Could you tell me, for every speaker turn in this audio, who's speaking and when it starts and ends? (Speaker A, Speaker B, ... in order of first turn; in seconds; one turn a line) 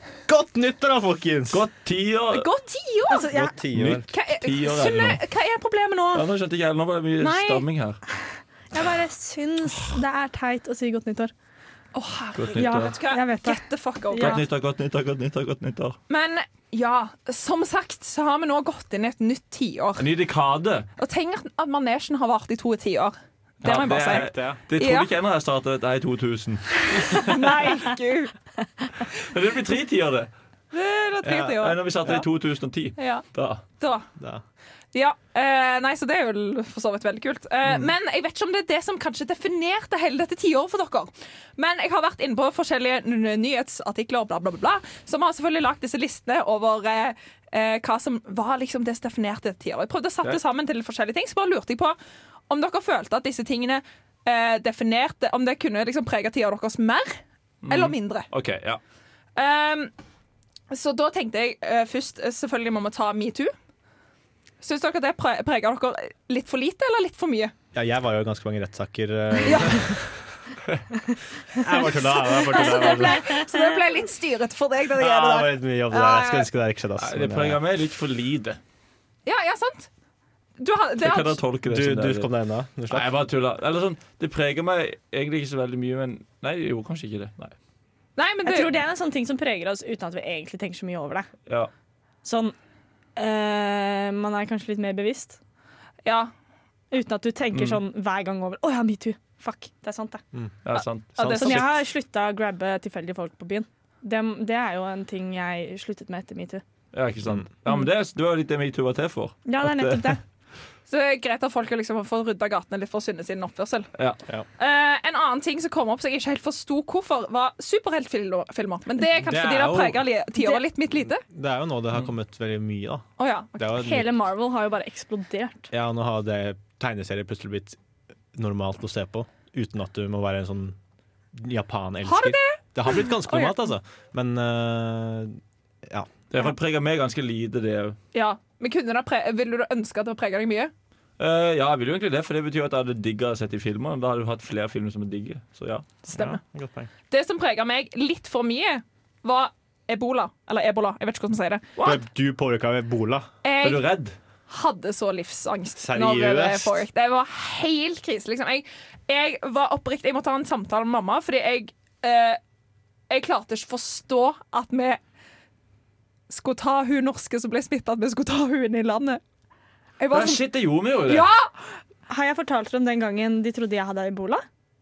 Speaker A: 0.3-1.6
Speaker B: 1.5-2.5
Speaker C: 2.3-3.3
Speaker D: 3.1-3.5
Speaker A: 3.3-4.1
Speaker B: 3.7-5.2
Speaker C: 4.1-6.3
Speaker B: 6.1-8.0
Speaker C: 7.2-7.7
Speaker D: 8.7-11.3
Speaker C: 11.9-14.4
Speaker B: 12.3-12.9
Speaker D: 12.6-14.4
Speaker B: 14.2-16.0
Speaker C: 16.1-20.1
Speaker B: 20.0-20.9
Speaker C: 21.0-25.1
Speaker B: 23.6-27.3
Speaker A: 23.7-24.6
Speaker C: 27.1-28.3
Speaker B: 29.1-30.3
Speaker C: 30.7-32.2
Speaker A: 31.2-32.2
Speaker B: 31.6-33.6
Speaker C: 33.0-33.2
Speaker C: 33.8-34.1
Speaker A: 34.2-34.4
Speaker C: 34.9-52.0
Speaker C: 52.5-58.3
Speaker B: 57.6-58.8
Speaker C: 59.4-59.9
Speaker C: 60.7-63.5
Speaker C: 64.6-67.5
Speaker A: 67.7-70.0
Speaker C: 69.5-69.8
Speaker A: 71.5-73.4
Speaker C: 72.5-76.5
Speaker A: 74.9-77.6
Speaker B: 77.0-78.6
Speaker C: 79.2-79.9
Speaker C: 80.6-81.4
Speaker B: 81.0-82.3
Speaker A: 81.7-83.1
Speaker B: 82.9-87.5
Speaker C: 88.2-88.7
Speaker D: 88.5-91.3
Speaker D: 92.2-92.5
Speaker D: 93.2-95.4
Speaker C: 96.0-96.3
Speaker D: 96.9-100.2
Speaker B: 97.5-97.8
Speaker B: 100.6-101.4
Speaker A: 101.1-101.7
Speaker C: 101.2-101.6
Speaker D: 101.4-106.6
Speaker B: 106.9-110.1
Speaker D: 109.5-110.2
Speaker C: 110.9-113.9
Speaker C: 114.6-121.2
Speaker A: 119.2-120.1
Speaker A: 121.1-124.1
Speaker C: 123.2-123.7
Speaker D: 123.7-125.7
Speaker A: 125.7-127.8
Speaker A: 128.3-130.8
Speaker A: 131.3-136.1
Speaker C: 132.0-133.6
Speaker B: 136.3-138.0
Speaker C: 138.1-140.7
Speaker B: 141.2-145.9
Speaker C: 146.1-146.4
Speaker A: 146.1-146.9
Speaker C: 147.1-152.0
Speaker A: 151.8-153.3
Speaker C: 153.4-153.9
Speaker B: 153.6-154.1
Speaker C: 154.5-162.4
Speaker A: 155.8-156.8
Speaker C: 163.1-165.0
Speaker C: 166.3-169.2
Speaker C: 170.0-170.4
Speaker B: 170.1-171.3
Speaker C: 171.0-171.5
Speaker D: 172.1-174.4